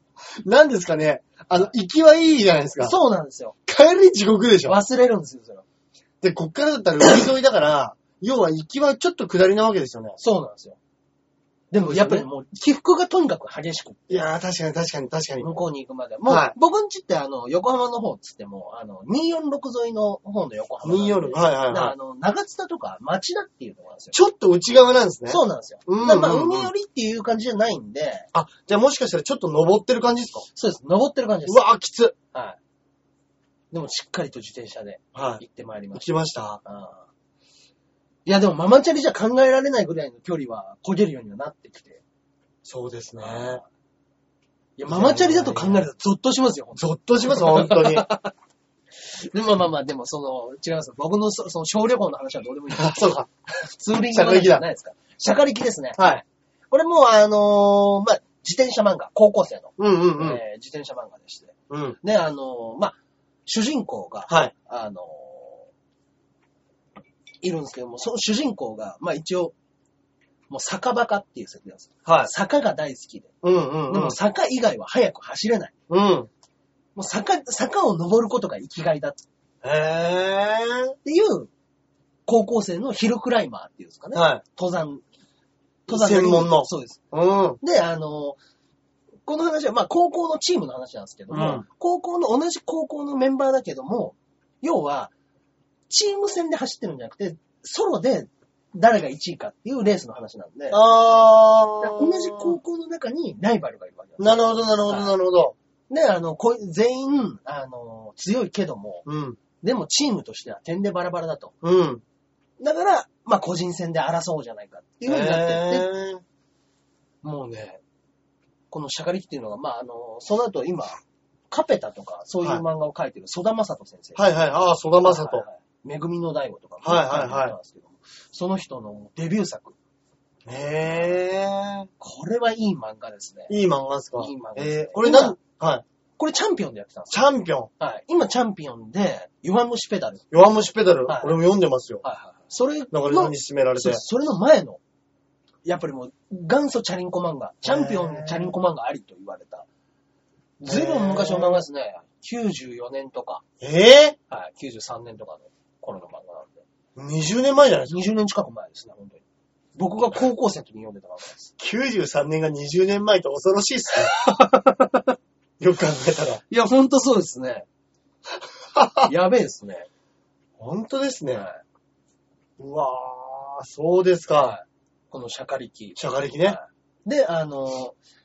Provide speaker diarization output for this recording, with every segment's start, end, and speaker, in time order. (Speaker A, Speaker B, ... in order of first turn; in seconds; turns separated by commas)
Speaker A: 0.4-3.0, Speaker B: 2.8-3.6, Speaker A: 3.7-4.8, Speaker B: 4.7-5.7, Speaker A: 6.2-10.2, Speaker B: 10.2-10.8, Speaker B: 11.7-14.3, Speaker A: 11.8-12.3, Speaker A: 14.1-15.5, Speaker B: 15.4-24.2, Speaker A: 16.3-16.6, Speaker A: 20.8-21.9, Speaker A: 24.1-26.7, Speaker B: 25.3-28.3, Speaker A: 28.3-30.5, Speaker B: 30.6-31.6, Speaker A: 31.5-32.2, Speaker B: 33.7-36.1, Speaker A: 35.1-35.4, Speaker A: 35.9-36.6, Speaker B: 36.6-37.1, Speaker B: 38.3-42.0, Speaker A: 42.6-43.6, Speaker B: 43.2-43.7, Speaker B: 44.8-48.3, Speaker A: 44.9-45.9, Speaker A: 46.8-48.1, Speaker B: 49.0-53.0, Speaker A: 52.7-54.7, Speaker B: 53.7-56.2, Speaker A: 56.0-56.2, Speaker B: 56.7-63.0, Speaker A: 59.8-60.4, Speaker A: 61.7-62.0, Speaker B: 63.5-65.7, Speaker B: 67.4-69.5, Speaker B: 70.5-73.3, Speaker A: 72.0-72.3, Speaker A: 73.4-74.2, Speaker B: 73.9-75.7, Speaker A: 75.9-76.3, Speaker B: 77.0-79.2, Speaker A: 79.6-81.0, Speaker B: 81.0-81.5, Speaker B: 82.3-85.0, Speaker A: 84.1-84.4, Speaker B: 85.9-87.0, Speaker A: 85.9-87.6, Speaker B: 87.6-88.4, Speaker B: 89.3-95.1, Speaker A: 91.3-91.7, Speaker B: 95.9-100.8, Speaker A: 100.7-102.6, Speaker B: 101.8-105.2, Speaker A: 104.2-105.5, Speaker B: 105.9-109.0, Speaker A: 109.1-109.4, Speaker B: 109.6-111.5, Speaker A: 111.6-112.0, Speaker B: 112.6-115.9, Speaker A: 115.0-116.2, Speaker B: 117.2-117.8, Speaker B: 118.7-121.0, Speaker B: 121.5-124.4, Speaker A: 124.2-125.5, Speaker B: 125.0-129.8, Speaker A: 126.8-127.6, Speaker A: 130.4-131.9, Speaker B: 132.0-133.5, Speaker A: 133.5-135.8, Speaker B: 134.2-135.4, Speaker B: 136.2-137.3, Speaker A: 137.1-137.7, Speaker B: 137.8-140.3, Speaker A: 140.3-142.0, Speaker B: 141.1-141.4, Speaker B: 142.0-144.8, Speaker A: 142.9-144.0, Speaker B: 145.7-149.7, Speaker A: 147.7-148.5, Speaker B: 150.6-153.4, Speaker A: 150.7-151.6, Speaker A: 153.6-154.2, Speaker B: 154.3-156.6, Speaker A: 157.0-158.0, Speaker B: 157.9-159.2, Speaker B: 159.8-161.5, Speaker A: 161.6-164.1, Speaker B: 164.1-165.1, Speaker A: 165.6-166.4, Speaker B: 166.5-167.7, Speaker A: 168.8-169.1, Speaker B: 169.1-169.9, Speaker A: 170.6-171.5, Speaker A: 172.6-174.6, Speaker B: 174.4-178.0, Speaker A: 176.0-176.6